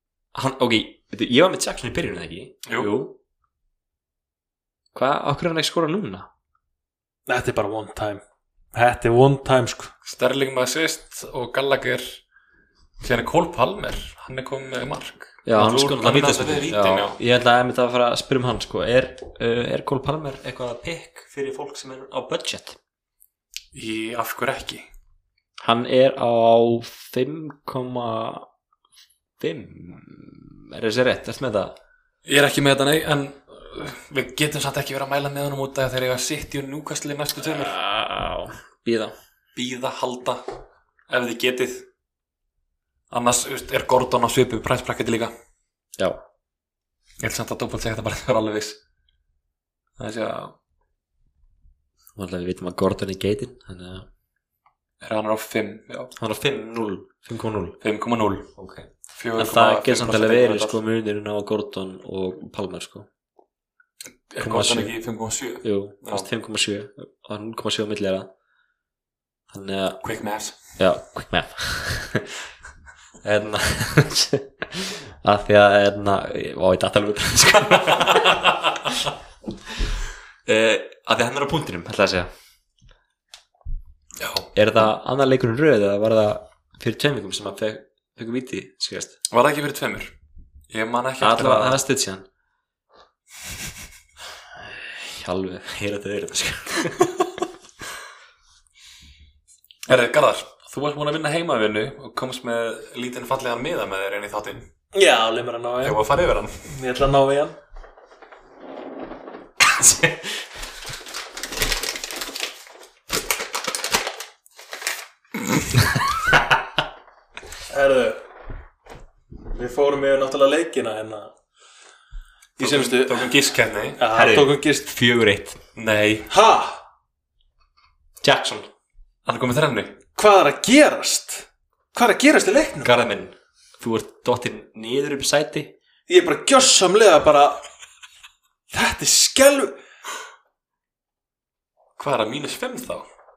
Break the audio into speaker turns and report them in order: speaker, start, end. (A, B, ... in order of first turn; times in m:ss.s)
0:00.3-0:03.2 A
0:02.6-0:02.9 B
0:04.9-0:06.3 A
0:07.3-0:08.2 C
0:08.7-0:09.9 C
0:10.0-0:12.2 B
0:13.0-0:17.2 B
0:15.4-0:22.8 A
0:23.7-0:24.9 B
0:25.6-0:28.5 A
0:29.4-0:31.8 A
0:32.3-0:37.8 B
0:37.4-0:39.1 A
0:39.6-0:40.4 B
0:41.1-0:41.9 B
0:43.1-0:45.3 B
0:47.2-0:48.8 B
0:50.0-0:50.5 B
0:52.2-0:54.1 A
0:55.0-0:56.1 B
0:56.2-0:57.8 A
0:57.8-0:58.5 B
0:58.6-1:03.1 A
0:59.2-1:00.8 B
1:04.3-1:06.3 B
1:04.4-1:05.0 A
1:05.6-1:08.3 A
1:09.5-1:10.0 A
1:10.0-1:10.6 B
1:10.8-1:12.4 A
1:13.2-1:18.5 A
1:18.1-1:18.5 B
1:20.5-1:22.3 A
1:24.2-1:24.5 B
1:24.6-1:29.2 A
1:29.3-1:30.1 B
1:30.7-1:31.8 B
1:31.2-1:32.3 A
1:34.6-1:37.2 A
1:39.9-1:44.7 B
1:44.9-1:46.0 C
1:45.8-1:46.6 B
1:46.7-1:47.6 C
1:49.6-1:50.4 A
1:57.7-1:58.2 C
1:59.5-2:01.3 C
2:02.6-2:03.4 C
2:02.6-2:04.0 B
2:04.0-2:04.9 C
2:04.1-2:05.6 A
2:05.8-2:06.3 B
2:06.3-2:06.8 C
2:08.2-2:08.7 A
2:09.3-2:09.9 B
2:10.2-2:12.9 C
2:12.8-2:15.8 A
2:16.1-2:17.6 C
2:18.7-2:19.8 C
2:22.0-2:23.1 B